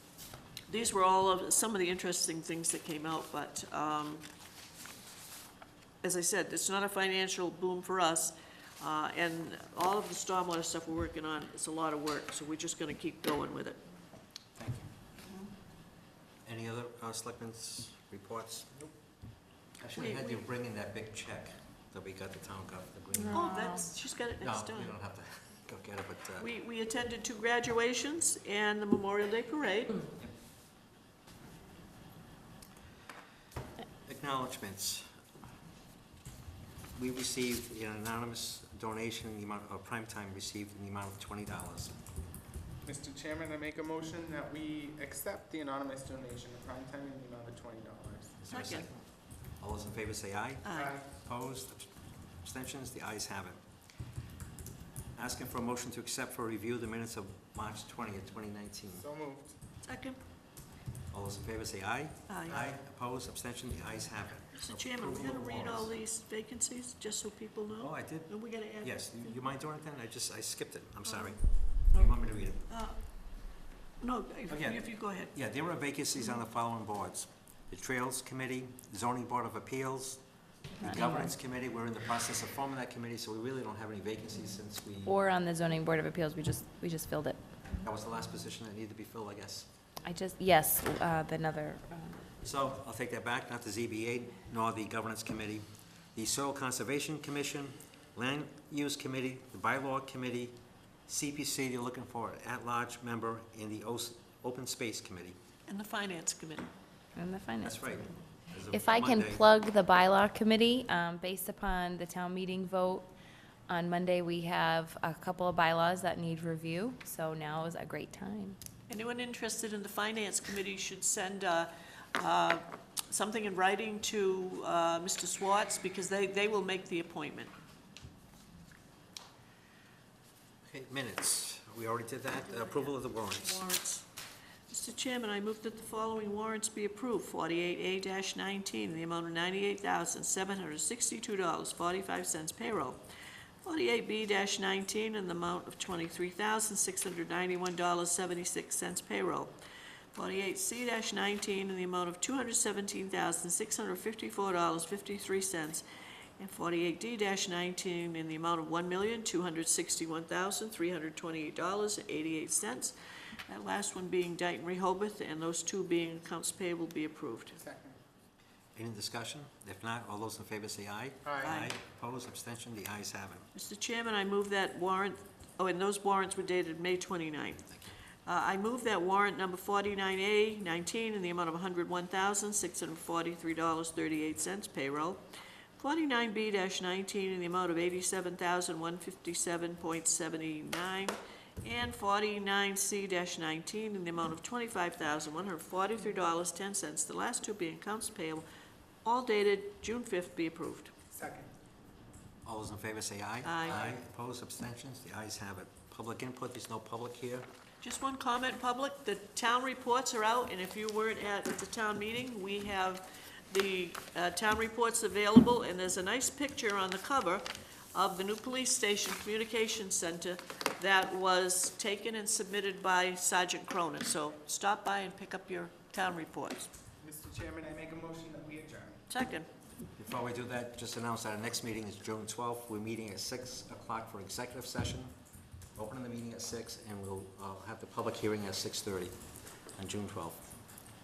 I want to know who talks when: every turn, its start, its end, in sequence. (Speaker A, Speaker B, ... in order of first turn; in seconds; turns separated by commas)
Speaker A: 0.7-4.3, Speaker A: 6.0-13.8, Speaker B: 14.6-14.8, Speaker B: 16.4-18.8, Speaker B: 19.8-23.7, Speaker A: 19.9-20.4, Speaker C: 23.1-23.9, Speaker A: 23.3-24.9, Speaker B: 24.4-26.5, Speaker A: 26.4-30.1, Speaker B: 34.0-35.1, Speaker B: 36.9-42.0, Speaker D: 42.8-48.4, Speaker B: 48.4-53.6, Speaker A: 48.5-48.9, Speaker A: 50.6-51.0, Speaker D: 50.7-51.1, Speaker B: 55.1-59.0, Speaker D: 59.0-59.5, Speaker A: 59.8-60.2, Speaker B: 61.1-65.9, Speaker A: 62.3-62.6, Speaker A: 64.5-69.4, Speaker B: 67.8-72.7, Speaker A: 71.0-72.1, Speaker A: 72.7-73.3, Speaker A: 74.0-75.3, Speaker B: 74.5-85.2, Speaker C: 80.8-81.3, Speaker C: 85.0-87.4, Speaker B: 87.8-89.7, Speaker C: 90.0-92.3, Speaker B: 92.4-105.4, Speaker A: 105.7-106.7, Speaker C: 107.1-113.1, Speaker B: 107.6-109.4, Speaker C: 113.7-118.6, Speaker A: 118.9-127.5, Speaker B: 130.7-133.6, Speaker A: 132.3-134.1, Speaker A: 134.7-143.0, Speaker A: 143.6-149.5, Speaker A: 150.1-155.8, Speaker A: 156.4-162.9, Speaker A: 163.5-167.6, Speaker D: 167.5-168.0, Speaker B: 168.7-173.5, Speaker D: 171.2-171.5, Speaker A: 171.4-171.8, Speaker A: 173.5-185.2, Speaker A: 185.8-198.4, Speaker A: 199.0-200.9, Speaker D: 201.1-201.5, Speaker B: 202.4-207.4, Speaker A: 203.4-203.9, Speaker A: 207.8-226.7, Speaker D: 227.0-229.1, Speaker A: 229.1-229.5, Speaker B: 230.0-235.1, Speaker B: 235.7-239.2, Speaker B: 239.7-240.5